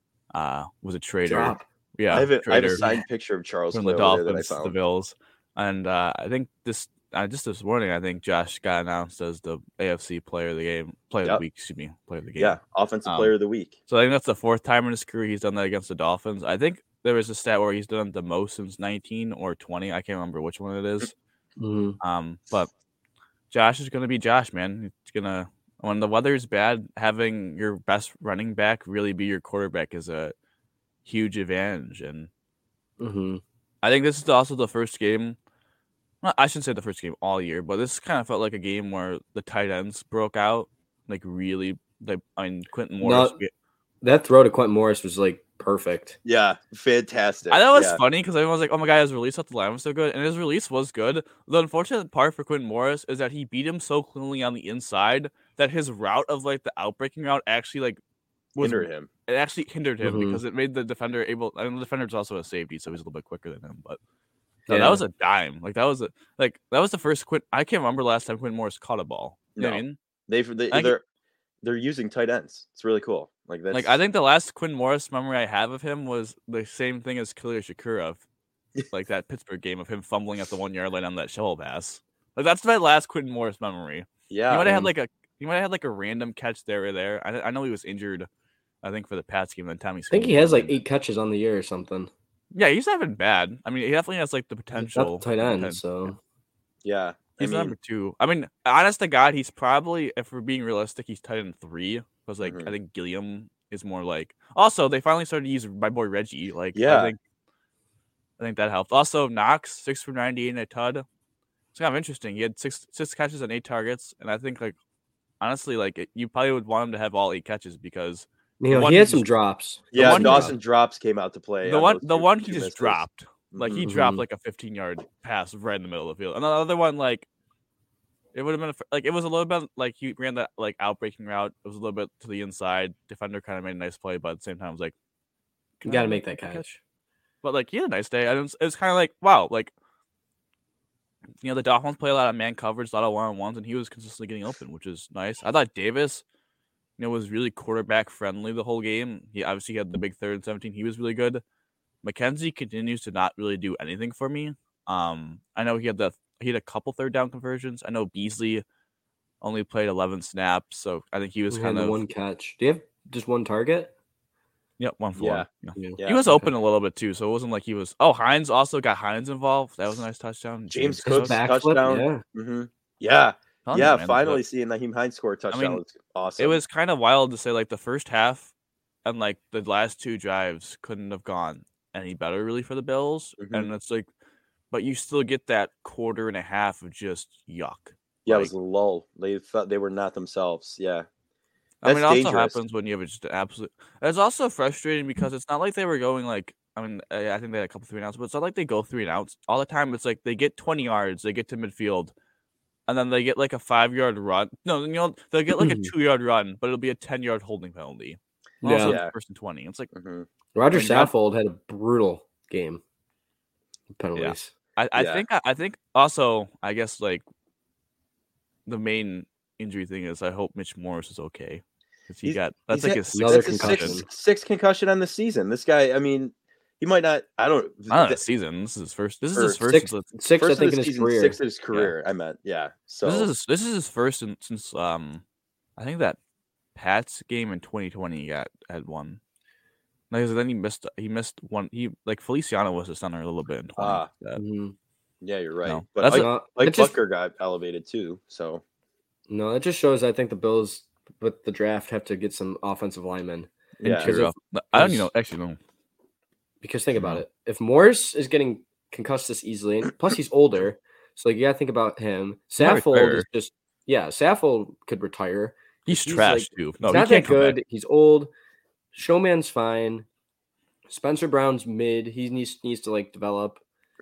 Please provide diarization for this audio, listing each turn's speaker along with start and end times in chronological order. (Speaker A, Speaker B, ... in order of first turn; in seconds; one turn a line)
Speaker A: 0.3-2.8
Speaker B: 1.2-1.6
Speaker C: 2.1-4.8
Speaker A: 3.7-13.3
Speaker C: 12.4-13.8
Speaker A: 13.9-21.1
Speaker B: 21.6-22.0
Speaker A: 22.0-22.7
Speaker A: 23.5-30.3
Speaker A: 31.0-32.3
Speaker B: 33.0-33.4
Speaker A: 33.8-35.4
Speaker A: 36.2-43.5
Speaker B: 43.0-43.4
Speaker B: 44.0-46.2
Speaker C: 46.2-48.0
Speaker A: 47.5-58.0
Speaker A: 58.5-64.0
Speaker C: 58.6-59.1
Speaker B: 60.0-60.4
Speaker B: 64.7-65.0
Speaker A: 64.7-70.0
Speaker C: 69.5-71.0
Speaker C: 71.6-74.0
Speaker A: 73.7-78.2
Speaker A: 78.9-88.3
Speaker C: 84.3-84.9
Speaker A: 88.8-90.8
Speaker B: 90.1-92.1
Speaker A: 92.5-96.1
Speaker B: 94.8-96.2
Speaker C: 96.8-97.7
Speaker A: 97.4-107.2
Speaker C: 102.4-102.7
Speaker C: 106.7-107.1
Speaker A: 108.4-111.0
Speaker A: 111.7-114.8
Speaker A: 115.4-119.2
Speaker B: 118.6-120.5
Speaker C: 119.9-123.8
Speaker A: 119.9-120.5
Speaker A: 121.6-127.2
Speaker B: 123.8-124.2
Speaker A: 128.3-134.9
Speaker A: 135.8-136.6
Speaker B: 135.8-136.8
Speaker A: 137.4-139.7
Speaker A: 141.4-146.2
Speaker A: 147.0-151.4
Speaker A: 152.0-158.6
Speaker A: 159.4-162.0
Speaker B: 161.5-163.9
Speaker A: 164.8-171.4
Speaker C: 165.2-165.5
Speaker B: 165.8-166.5
Speaker C: 166.0-166.3
Speaker C: 170.7-176.6
Speaker B: 171.1-172.2
Speaker A: 173.7-174.4
Speaker A: 175.5-175.8
Speaker A: 176.4-178.5
Speaker A: 179.0-184.1
Speaker C: 183.4-183.7
Speaker A: 184.7-188.5
Speaker C: 188.2-191.1
Speaker A: 191.8-202.1
Speaker C: 191.8-192.6
Speaker A: 202.9-209.9
Speaker B: 205.5-205.9
Speaker B: 208.6-208.9
Speaker C: 208.8-209.1
Speaker C: 209.9-210.3
Speaker B: 210.5-212.8
Speaker A: 210.7-211.1
Speaker B: 213.9-214.5
Speaker A: 214.2-217.2
Speaker C: 214.9-215.2
Speaker A: 218.7-224.0
Speaker C: 222.2-228.2
Speaker B: 223.1-224.1
Speaker A: 227.9-230.1
Speaker B: 229.6-231.4
Speaker C: 230.4-233.3
Speaker A: 233.0-235.2
Speaker A: 235.8-236.2
Speaker A: 236.7-239.2
Speaker A: 240.1-244.4
Speaker C: 243.8-244.1
Speaker B: 244.3-244.8
Speaker C: 245.2-248.6
Speaker A: 245.7-246.3
Speaker B: 246.0-246.9
Speaker B: 249.3-255.1
Speaker C: 253.8-254.1
Speaker A: 253.9-255.6
Speaker B: 256.6-268.3
Speaker A: 256.9-257.2
Speaker A: 262.6-263.2
Speaker A: 265.9-267.6
Speaker B: 268.9-270.1
Speaker B: 270.9-273.6